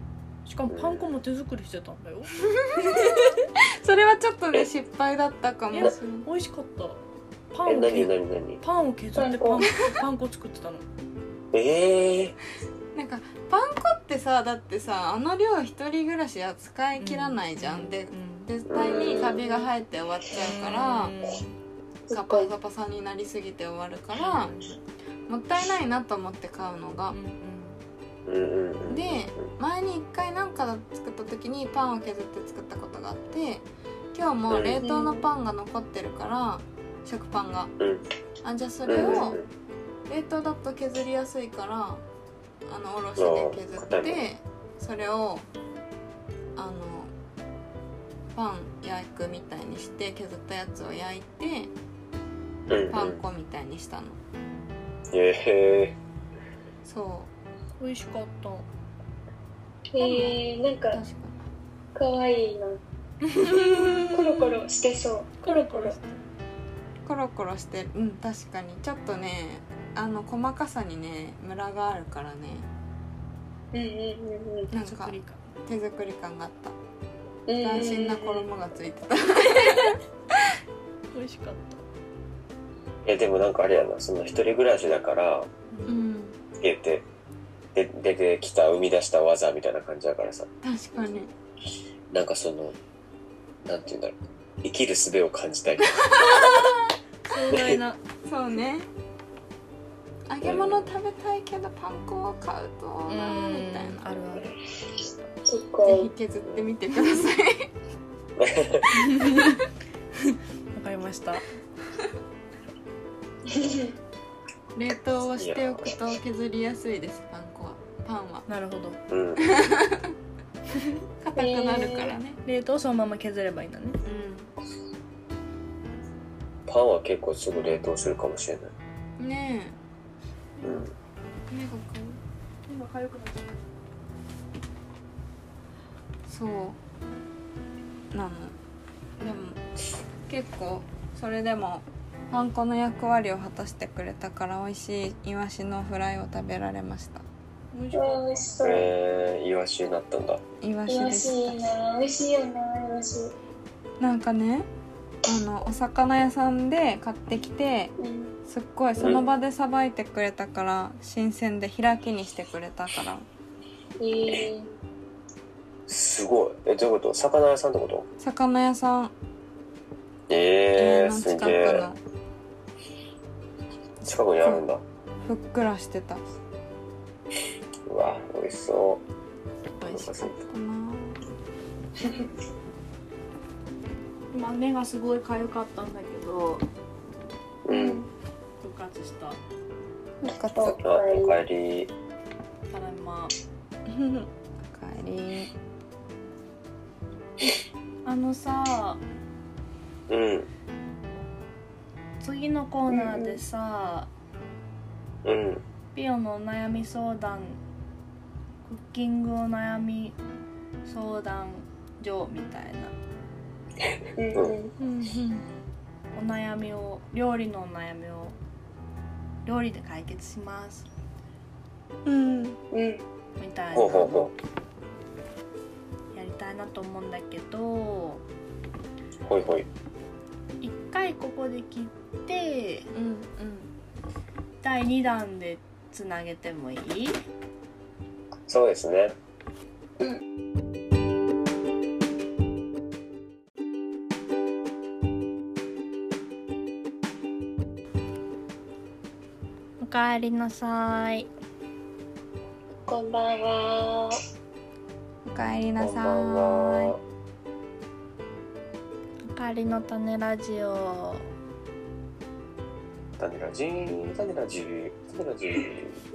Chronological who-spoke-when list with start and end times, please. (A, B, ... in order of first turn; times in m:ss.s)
0:00.4-0:03.3 A
0:00.7-0:01.1 B
0:02.9-0:06.3 C
0:05.7-0:10.8 A
0:07.6-0:08.6 B
0:09.1-0:09.7 D
0:11.5-0:12.4 B
0:12.9-0:21.1 C
0:17.0-0:18.5 A
0:18.7-0:19.4 B
0:19.2-0:19.7 A
0:20.3-0:21.6 A
0:22.1-0:22.5 D
0:22.1-0:24.5 C
0:24.1-0:24.8 A
0:25.3-0:27.1 C
0:27.1-0:27.8 A
0:28.2-0:29.5 B
0:28.9-0:37.7 C
0:34.5-0:34.8 B
0:34.8-0:35.3 D
0:38.4-0:39.4 C
0:38.9-0:39.5 B
0:40.1-0:42.0 C
0:42.6-0:45.4 C
0:43.2-0:44.2 B
0:46.6-0:47.1 C
0:48.3-0:51.7 C
0:52.7-0:53.2 B
0:52.9-0:54.2 C
0:55.1-0:56.0 B
0:56.8-0:57.3 C
0:57.8-0:58.7 A
0:59.9-1:01.0 D
1:00.0-1:00.3 C
1:00.9-1:01.4 C
1:01.9-1:02.8 D
1:03.3-1:04.0 A
1:03.4-1:04.4 C
1:04.1-1:06.0 D
1:05.4-1:06.2 A
1:07.0-1:12.7 C
1:13.7-1:14.7 D
1:14.7-1:16.8 C
1:14.8-1:15.5 A
1:17.5-1:18.5 D
1:17.6-1:20.5 C
1:21.1-1:21.8 A
1:23.0-1:25.5 B
1:25.7-1:26.0 A
1:25.8-1:26.4 C
1:26.6-1:27.0 B
1:27.7-1:30.5 B
1:30.6-1:31.3 C
1:32.1-1:32.8 B
1:33.6-1:36.1 B
1:35.9-1:36.9 C
1:37.2-1:38.0 A
1:37.5-1:37.8 B
1:38.2-1:38.9 C
1:40.3-1:44.4 C
1:40.4-1:40.9 B
1:43.1-1:44.5 A
1:45.4-1:46.1 D
1:45.8-1:47.7 C
1:48.4-1:49.1 B
1:48.9-1:49.6 A
1:50.2-1:51.4 A
1:53.5-1:53.9 D
1:54.7-1:58.5 C
1:55.4-1:55.9 B
1:58.5-1:59.0 A
1:59.1-1:59.5 B
1:59.4-2:00.1 C
2:01.2-2:02.4 C
2:01.3-2:02.1 D
2:02.4-2:04.0 A
2:04.0-2:04.5 C
2:06.7-2:08.7 B
2:09.2-2:09.8 C
2:10.6-2:10.9 B
2:11.5-2:12.2 C
2:12.7-2:13.6 A
2:16.3-2:16.8 C
2:18.1-2:18.6 C
2:19.2-2:19.6 C
2:20.3-2:27.2 C
2:27.7-2:28.7 A
2:27.9-2:28.9 D
2:28.6-2:30.4 B
2:30.6-2:31.6 C
2:30.9-2:33.3 D
2:34.0-2:34.7 C
2:35.2-2:37.9 C
2:38.0-2:38.3 D
2:38.5-2:43.2 C
2:44.0-2:44.7 D
2:45.9-2:48.1 B
2:48.2-2:49.1 C
2:50.3-2:51.8 B
2:50.8-2:52.0 C
2:54.0-2:54.6 C
2:54.0-2:54.8 B
2:55.2-2:56.3 C
2:57.8-2:59.0 B
2:59.8-3:01.2 C
2:59.8-3:00.4 B
3:02.0-3:02.3 D
3:04.3-3:06.6 A
3:07.6-3:08.1 B
3:07.7-3:08.1 D
3:08.6-3:09.4 A
3:10.2-3:10.8 C
3:10.5-3:11.4 D
3:10.8-3:11.9 B
3:12.7-3:13.3 A
3:13.9-3:15.5 C
3:18.0-3:19.0 A
3:20.1-3:20.5 B
3:22.2-3:24.1 A
3:22.9-3:23.4 D
3:25.2-3:25.6 B
3:25.9-3:27.6 A
3:28.6-3:30.2 A
3:30.8-3:32.9 A
3:33.8-3:34.5 B
3:34.2-3:34.7 D
3:34.8-3:35.4 C
3:34.8-3:35.1 A
3:36.1-3:38.3 A
3:39.4-3:40.9 A
3:42.0-3:42.6 C
3:42.7-3:43.0 D
3:43.4-3:44.3 A
3:43.7-3:44.3 B
3:46.1-3:48.2 A
3:49.2-3:49.7 B
3:50.6-3:52.9 A
3:52.9-3:53.7 C
3:54.6-3:57.2 A
3:58.5-3:59.1 B
4:09.8-4:11.3 A
4:12.8-4:14.2 D
4:15.2-4:17.0 C
4:15.8-4:17.0 B
4:19.2-4:21.3 A
4:23.2-4:26.0 B